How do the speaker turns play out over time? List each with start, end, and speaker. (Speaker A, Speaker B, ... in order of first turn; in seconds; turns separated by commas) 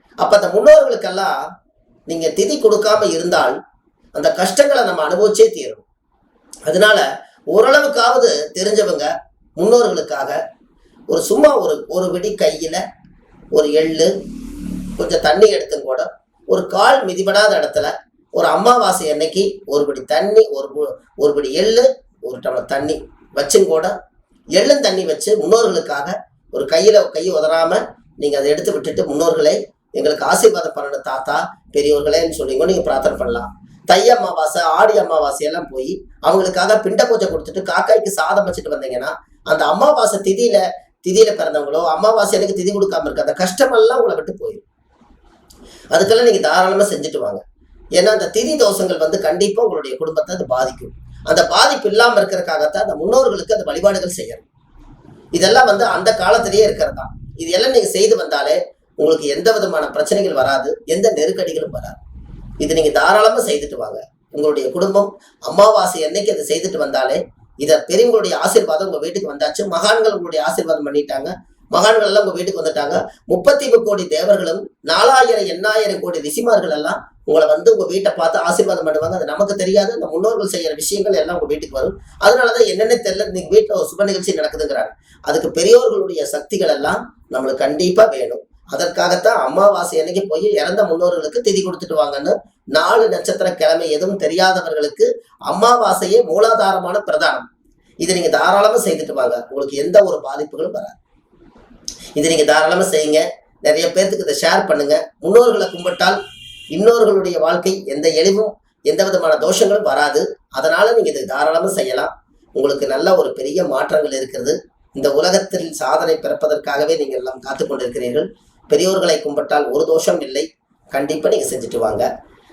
Speaker A: 0.2-1.4, Speaker A: 2.1-3.6, Speaker A: 4.2-5.8, Speaker A: 6.7-10.4, Speaker A: 11.1-12.8, Speaker A: 13.5-14.1, Speaker A: 15.0-23.9, Speaker A: 24.6-44.6, Speaker A: 45.9-47.4, Speaker A: 48.0-54.5, Speaker A: 55.4-62.0, Speaker A: 62.6-97.5, Speaker A: 98.0-101.0, Speaker A: 102.2-106.2, Speaker A: 106.7-122.1